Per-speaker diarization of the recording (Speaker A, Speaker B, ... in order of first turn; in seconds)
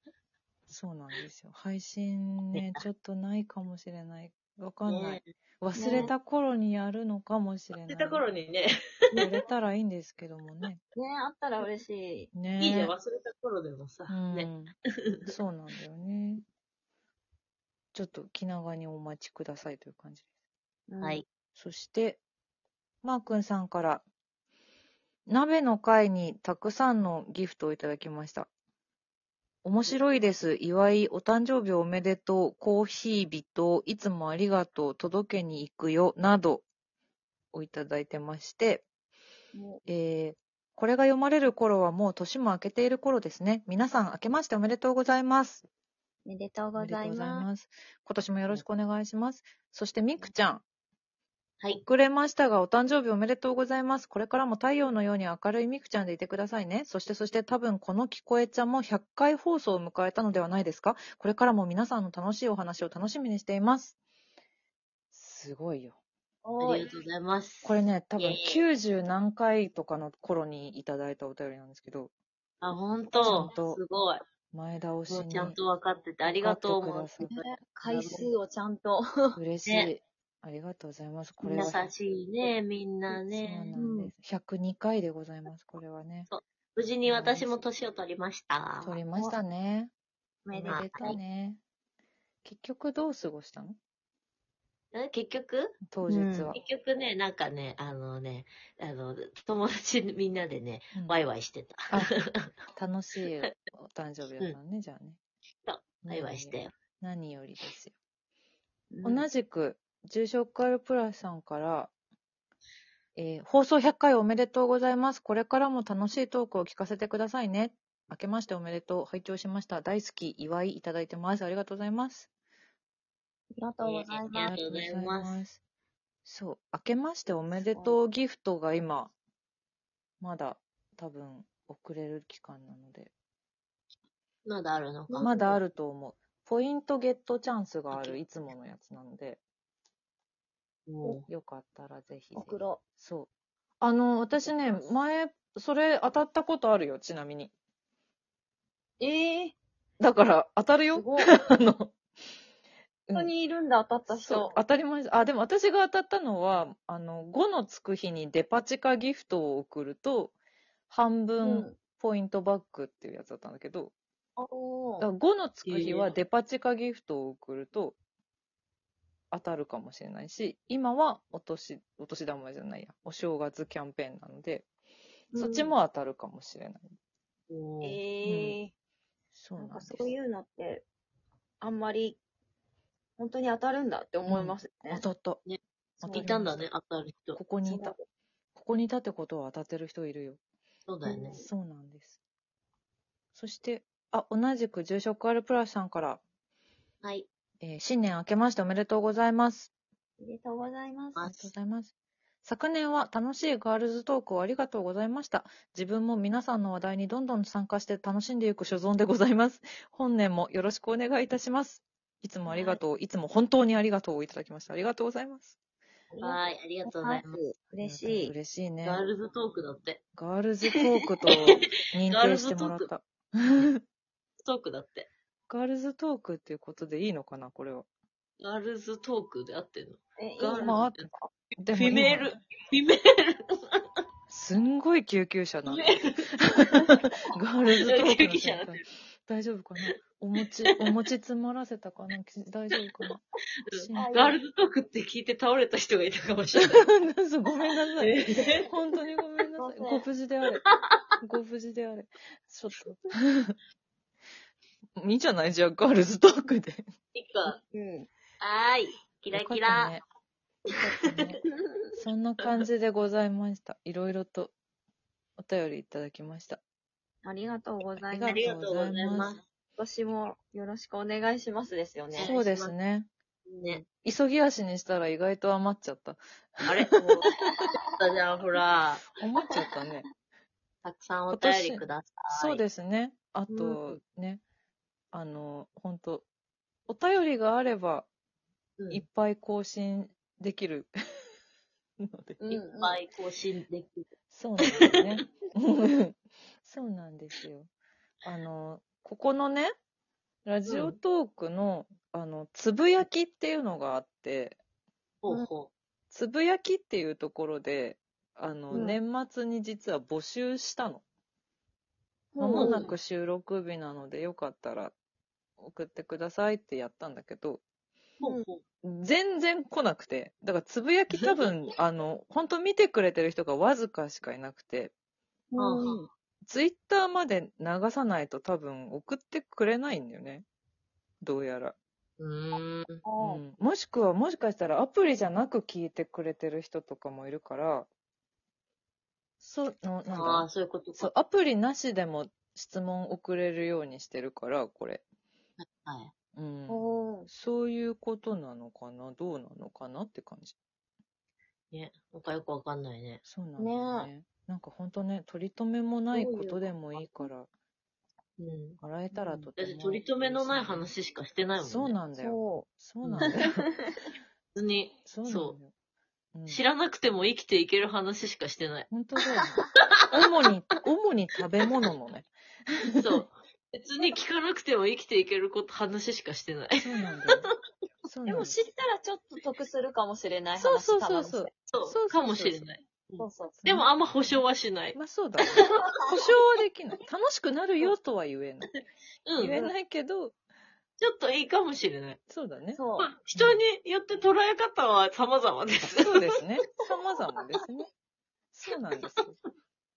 Speaker A: 0.7-8.2, 9.2-10.8, 12.3-12.9, 14.1-14.7, 15.3-16.4, 17.9-20.2, 21.6-22.2, 23.0-24.0, 25.3-28.5, 29.6-36.6, 37.5-38.8, 39.9-45.7, 46.8-50.6, 51.8-64.0, 65.1-66.0, 67.6-72.1, 73.2-73.8, 74.5-75.6, 76.2-77.3, 79.4-81.9, 83.2-86.3, 87.1-87.7, 88.8-89.9, 90.5-91.6, 92.4-93.8, 95.8-96.6, 101.0-101.2, 102.8-105.2, 106.0-107.9, 109.0-111.9, 113.2-122.3, 124.5-125.6, 126.3-129.1, 130.2-133.1, 135.2-139.4, 141.3-143.3, 143.8-147.5, 150.0-151.9, 154.1-160.3, 160.9-163.9, 165.0-168.0, 169.3-174.7, 175.3-176.9, 178.2-178.6, 179.3-180.1, 184.3-185.4, 186.0-186.7, 187.3-188.0, 188.6-190.4, 191.4-192.2, 193.3-196.2, 197.6-199.7, 201.2-201.9, 202.4-215.6, 217.8-219.0, 220.2-223.8, 225.5-227.9, 230.6-231.0, 231.6-232.4, 234.3-235.9, 236.6-244.2, 246.6-250.6, 251.2-253.5, 255.0-256.9, 259.3-260.0, 261.0-261.4, 262.0-264.5, 265.4-266.6, 268.0-269.3, 272.2-273.1, 273.9-276.2, 279.1-280.1, 281.3-284.4, 285.1-286.2, 286.9-288.1, 288.9-290.9, 292.0-292.4, 294.3-297.7, 298.2-299.7, 300.4-304.6, 306.1-311.0, 312.4-314.9, 315.6-317.6, 318.8-324.9, 326.5-330.4, 331.2-331.8, 333.2-337.9, 339.4-345.0, 346.4-350.6, 353.2-357.5, 358.8-360.9, 361.6-363.6, 365.1-365.7, 366.3-366.6, 368.9-372.3, 376.8-377.5, 378.1-378.6, 380.6-382.6, 383.6-384.4, 384.9-388.8, 389.4-390.4, 392.3-392.8, 393.4-393.6, 395.9-397.9, 398.5-399.4
Speaker B: 2.5-2.8, 4.9-5.3, 5.8-6.1, 7.9-9.3, 12.6-14.5, 15.1-15.3, 66.6-68.7, 72.6-74.2, 75.1-78.3, 79.7-79.9, 81.5-84.1, 86.3-89.0, 90.7-91.0, 94.9-95.8, 96.5-102.5, 105.7-106.7, 123.8-125.4, 134.4-135.4, 137.9-138.4, 140.9-141.2, 165.7-166.2, 175.3-175.7, 177.5-178.0, 186.1-187.4, 190.9-191.4, 197.0-197.3, 201.2-201.5, 212.5-212.8, 216.2-217.4, 218.8-220.0, 221.3-222.9, 224.4-225.1, 228.4-231.1, 231.7-233.8, 235.7-236.3, 237.9-238.8, 243.7-246.9, 248.0-248.7, 250.7-251.0, 257.1-257.6, 258.4-260.0, 260.7-261.1, 268.2-269.4, 272.1-272.8, 273.5-273.8, 276.6-277.3, 278.0-279.0, 280.8-282.6, 283.5-284.0, 288.8-289.0, 292.5-294.1, 300.7-301.0, 305.2-305.7, 312.6-312.9, 318.2-318.6, 321.2-321.5, 325.6-326.0, 332.2-333.0, 340.1-341.1, 345.6-346.1, 351.7-353.2, 358.4-358.8, 359.6-362.0, 363.0-363.3, 364.6-365.6, 366.5-368.9, 373.0-377.5, 381.7-385.7, 389.3-389.6, 391.0-392.2, 393.0-396.1
Speaker C: 5.8-6.1, 11.0-12.3, 20.9-21.2, 39.5-39.8, 46.2-47.5, 66.5-66.9, 73.2-73.6, 77.2-79.4, 81.4-81.8, 83.8-84.1, 90.5-91.2, 96.1-96.5, 108.9-109.3, 123.5-124.6, 127.6-128.0, 135.1-135.6, 142.4-142.8, 144.5-144.8, 149.0-149.6, 150.9-151.3, 153.1-154.6, 161.4-161.8, 164.4-165.1, 177.8-178.7, 179.6-180.8, 181.6-182.2, 183.2-185.1, 186.0-186.3, 187.7-188.0, 191.1-191.5, 200.2-201.3, 216.1-218.3, 230.2-231.3, 243.9-244.4, 249.6-250.1, 257.7-258.1, 260.8-261.0, 267.2-268.5, 269.8-272.3, 292.4-293.0, 308.7-309.0, 312.3-312.9, 325.5-326.1, 333.1-333.4, 346.7-347.3, 353.6-354.1, 356.1-357.3, 359.1-359.5, 362.2-362.7, 363.2-364.1, 378.3-381.5, 383.2-383.6, 392.7-393.1